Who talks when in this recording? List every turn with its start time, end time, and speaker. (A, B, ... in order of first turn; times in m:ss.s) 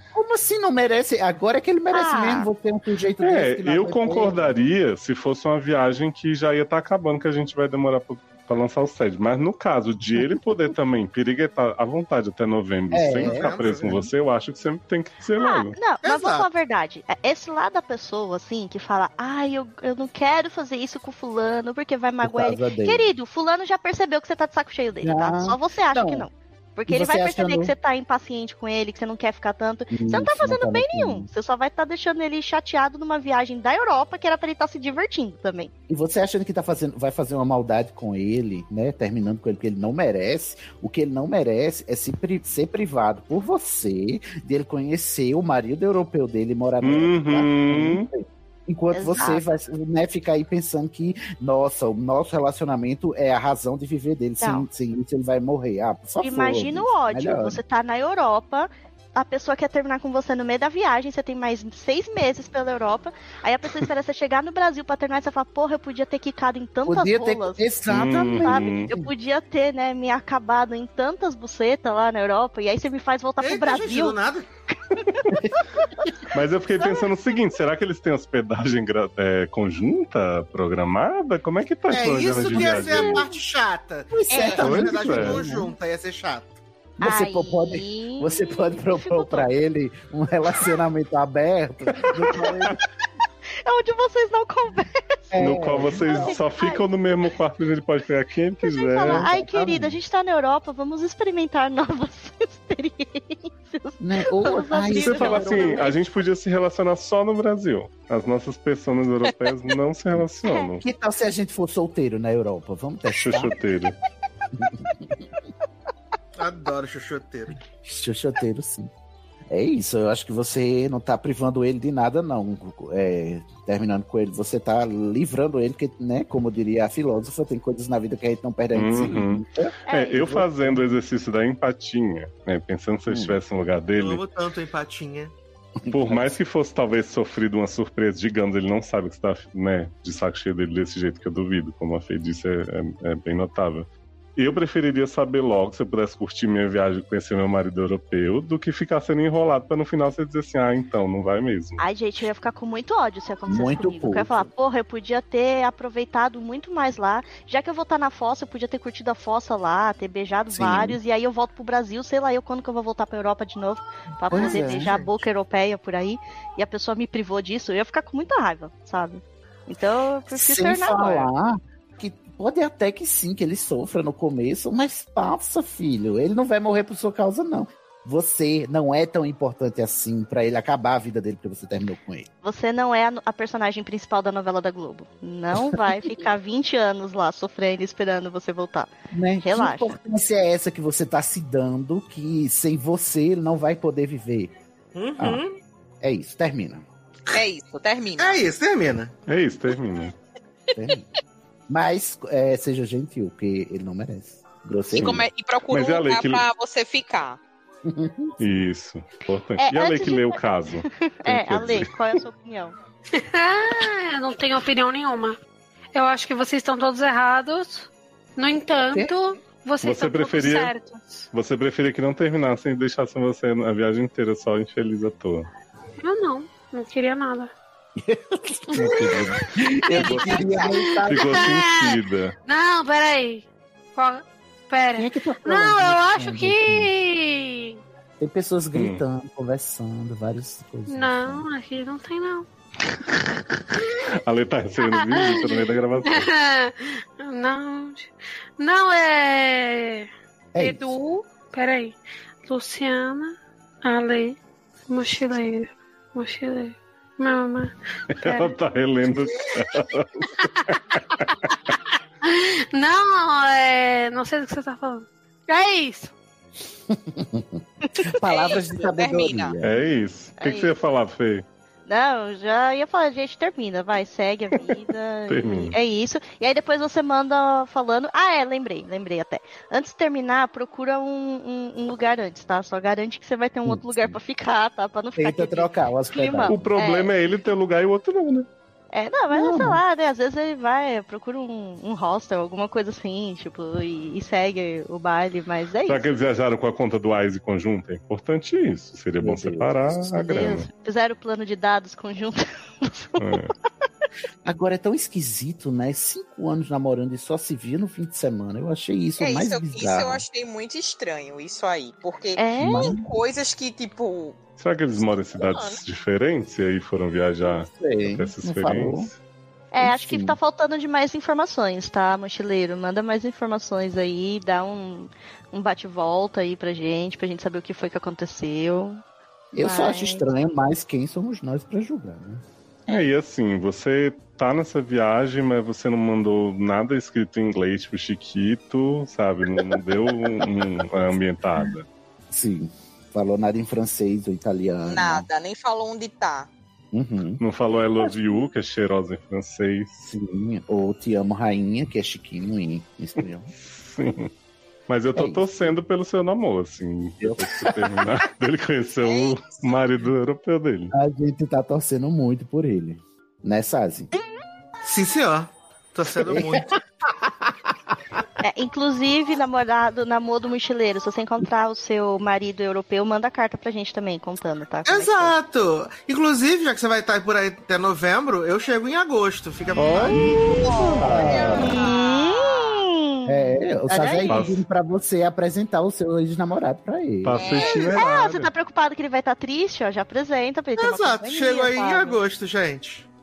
0:00.1-0:04.6 A
0:01.9-0:02.5 B
0:03.2-0:15.8 C
0:10.1-0:10.7 A
0:12.9-0:13.6 A
0:13.2-0:14.1 D
0:15.4-0:35.7 B
0:16.0-0:16.5 D
0:22.2-0:23.1 A
0:25.0-0:26.3 A
0:26.9-0:27.7 A
0:29.9-0:31.3 A
0:35.9-0:57.6 A
0:46.8-0:48.1 C
0:48.9-0:49.5 B
0:54.4-0:54.6 B
0:56.2-1:14.2 B
1:06.8-1:09.1 A
1:07.9-1:08.9 C
1:13.4-1:14.5 D
1:16.3-1:23.2 C
1:16.8-1:17.1 B
1:21.9-1:26.5 D
1:24.1-1:25.7 A
1:24.3-1:24.6 B
1:24.6-1:25.4 C
1:27.0-1:32.8 A
1:27.0-1:29.5 B
1:33.6-1:36.9 B
1:35.3-1:36.4 A
1:35.4-1:39.3 C
1:38.6-1:46.0 B
1:39.0-1:40.0 A
1:44.0-1:45.9 A
1:44.9-1:50.8 C
1:50.4-1:50.7 B
1:50.8-1:53.5 A
1:53.2-1:54.0 C
1:54.6-1:55.2 A
1:56.4-1:57.5 D
1:57.8-1:58.9 A
1:59.5-2:10.8 A
2:08.7-2:14.2 C
2:09.9-2:10.3 B
2:13.1-2:13.4 A
2:13.9-2:15.3 D
2:15.8-2:16.3 A
2:15.9-2:31.8 C
2:31.8-2:51.3 B
2:33.5-2:34.5 A
2:40.5-2:41.0 A
2:44.3-2:44.9 A
2:44.3-2:45.2 D
2:50.3-3:02.3 A
3:02.4-3:09.9 B
3:09.1-3:14.5 A
3:14.9-3:15.5 D
3:15.2-3:15.4 A
3:16.0-3:16.9 A
3:17.3-3:18.5 E
3:18.2-3:19.1 D
3:19.3-3:20.2 C
3:20.7-3:21.0 A
3:21.7-3:25.3 A
3:24.9-3:26.4 C
3:25.0-3:27.4 E
3:27.8-3:28.3 A
3:28.4-3:31.9 C
3:29.6-3:32.8 B
3:33.1-3:35.4 F
3:35.9-3:41.3 F
3:39.8-3:40.7 C
3:41.3-3:45.5 C
3:46.0-3:47.5 F
3:48.0-3:51.6 A
3:48.7-3:49.2 F
3:49.9-3:53.4 F
3:50.0-3:52.4 C
3:54.0-3:57.8 F
3:55.0-3:56.9 A
3:58.2-4:01.4 A
3:58.7-3:59.0 C
4:00.9-4:02.5 F
4:04.1-4:06.3 C
4:04.8-4:14.4 F
4:10.5-4:11.0 A
4:14.9-4:18.5 F
4:18.1-4:21.3 C
4:21.5-4:26.1 F
4:26.9-4:29.8 A
4:28.2-4:29.5 E
4:29.6-4:31.4 C
4:30.4-4:30.8 B
4:31.9-4:47.1 B
4:35.3-4:35.8 C
4:43.6-4:44.2 A
4:45.2-4:46.7 A
4:46.5-4:48.5 C
4:48.9-4:56.0 B
4:49.3-4:49.8 A
4:55.8-5:00.7 C
4:59.2-5:00.1 A
5:00.1-5:03.4 B
5:03.2-5:03.5 C
5:04.4-5:10.2 A
5:09.2-5:14.4 E
5:12.4-5:12.9 B
5:12.6-5:13.1 A
5:14.6-5:19.1 C
5:15.3-5:15.8 E
5:17.4-5:19.1 A
5:19.7-5:29.0 B
5:19.8-5:20.4 A
5:29.5-5:32.4 A
5:29.6-5:30.2 B
5:32.9-5:41.9 C
5:42.3-5:45.3 A
5:44.8-5:46.5 E
5:46.9-5:47.4 A
5:47.4-5:49.9 C
5:50.0-5:53.5 A
5:53.6-5:54.3 C
5:54.9-6:00.9 C
5:55.1-5:55.5 A
5:57.2-5:58.1 A
5:59.0-5:59.8 E
6:00.9-6:04.1 A
6:04.8-6:06.7 D
6:06.2-6:06.6 A
6:08.4-6:15.3 B
6:14.8-6:20.9 D
6:19.7-6:21.6 C
6:20.6-6:21.0 B
6:21.0-6:21.8 A
6:21.1-6:22.8 E
6:21.6-6:24.4 B
6:23.2-6:27.4 A
6:24.3-6:24.6 C
6:27.2-6:28.5 C
6:27.3-6:28.0 E
6:28.0-6:32.2 B
6:30.8-6:33.1 D